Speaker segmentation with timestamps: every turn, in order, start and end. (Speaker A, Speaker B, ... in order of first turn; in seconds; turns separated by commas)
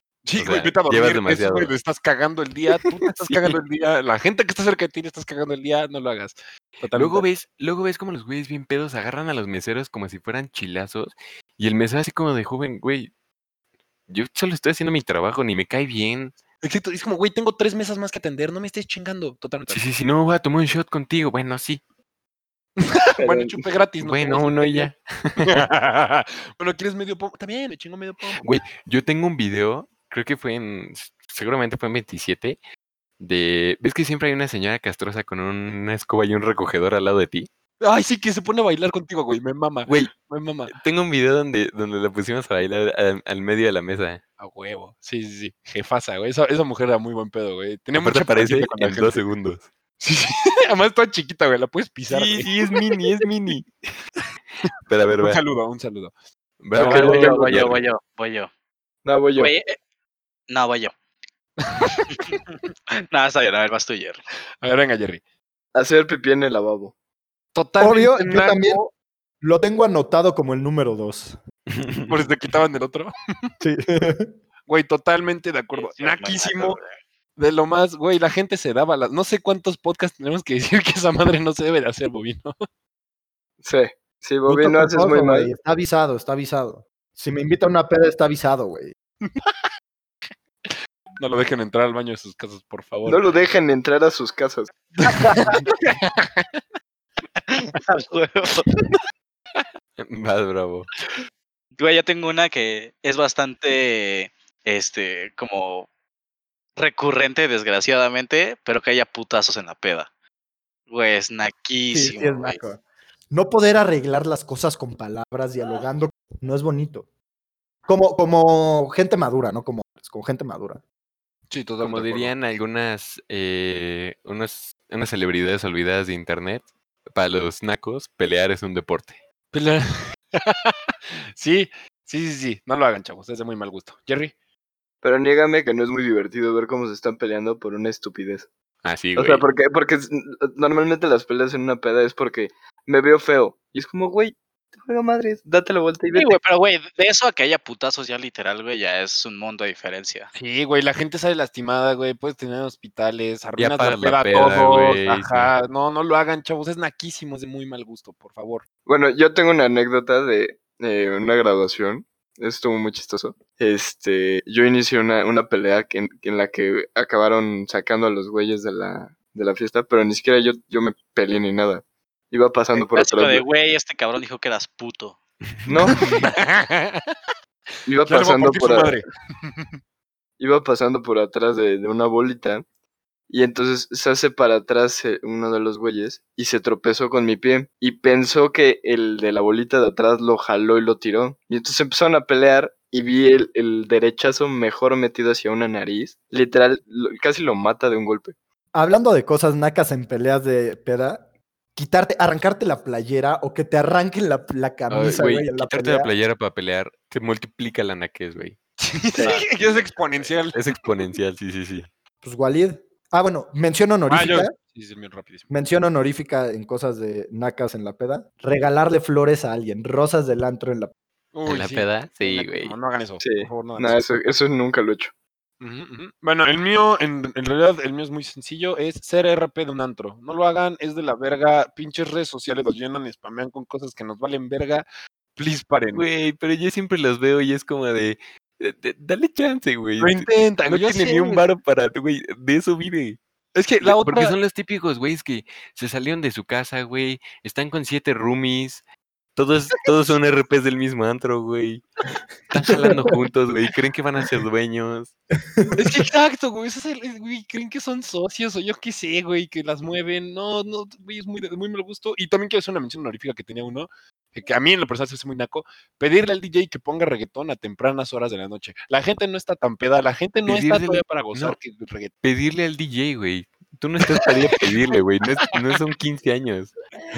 Speaker A: 0.2-7.2, Speaker B: 0.3-1.7, Speaker B: 3.0-3.6, Speaker B: 6.9-13.1, Speaker B: 14.1-16.3, Speaker A: 16.6-19.8, Speaker B: 19.7-21.8, Speaker A: 22.8-28.6, Speaker C: 23.2-23.6, Speaker B: 24.0-25.7, Speaker B: 28.4-32.6, Speaker B: 33.2-37.5, Speaker A: 37.8-40.7, Speaker B: 39.9-40.1, Speaker B: 40.7-44.2, Speaker A: 44.4-49.2, Speaker B: 48.0-49.7, Speaker A: 50.0-53.0, Speaker B: 52.1-53.7, Speaker B: 54.9-55.4, Speaker A: 55.2-56.1, Speaker B: 56.6-57.8, Speaker D: 56.8-58.5, Speaker C: 56.8-57.7, Speaker C: 59.0-59.5, Speaker D: 59.4-59.8, Speaker D: 60.5-60.9, Speaker A: 61.6-62.4, Speaker D: 62.1-64.2, Speaker A: 64.6-65.2, Speaker C: 65.7-66.9, Speaker A: 67.5-68.8, Speaker E: 67.8-68.9, Speaker E: 69.4-71.4, Speaker B: 71.7-72.1, Speaker A: 72.1-73.5, Speaker E: 73.6-74.3, Speaker A: 74.7-76.8, Speaker D: 75.7-77.0, Speaker A: 77.4-82.5, Speaker C: 83.6-85.5, Speaker E: 84.5-88.9, Speaker A: 89.2-89.5, Speaker A: 91.2-93.3, Speaker C: 93.0-94.7, Speaker A: 95.0-96.5, Speaker D: 97.5-98.7, Speaker B: 100.0-100.9, Speaker D: 101.8-105.9, Speaker D: 106.8-110.1, Speaker D: 110.9-112.6, Speaker E: 111.9-112.8, Speaker E: 113.3-117.1, Speaker E: 117.9-120.8, Speaker A: 121.5-122.3, Speaker B: 121.8-129.2, Speaker A: 129.5-134.3, Speaker C: 135.0-138.5, Speaker B: 138.8-139.4, Speaker C: 139.2-146.4, Speaker D: 146.1-150.3, Speaker A: 150.3-158.6, Speaker B: 153.6-155.5, Speaker C: 158.8-173.4, Speaker D: 172.8-175.2, Speaker C: 175.7-176.0, Speaker A: 175.9-177.1, Speaker C: 177.8-179.0, Speaker A: 178.1-179.7, Speaker C: 180.4-182.6, Speaker C: 183.3-198.3, Speaker E: 198.7-206.1, Speaker B: 204.9-208.6, Speaker A: 208.8-211.1, Speaker B: 209.2-211.9, Speaker D: 209.2-209.4, Speaker E: 212.2-214.5, Speaker A: 214.1-215.5, Speaker E: 215.5-220.9, Speaker A: 221.3-224.2, Speaker B: 221.4-222.8, Speaker C: 223.2-225.1, Speaker A: 225.6-236.1, Speaker B: 235.9-243.2, Speaker A: 240.0-241.4, Speaker A: 243.5-244.4, Speaker B: 243.8-248.8, Speaker B: 249.3-251.8, Speaker B: 252.5-255.1, Speaker E: 252.7-253.1, Speaker E: 255.5-256.0, Speaker A: 255.7-272.1, Speaker B: 270.4-271.6, Speaker B: 272.2-276.7, Speaker A: 274.3-274.7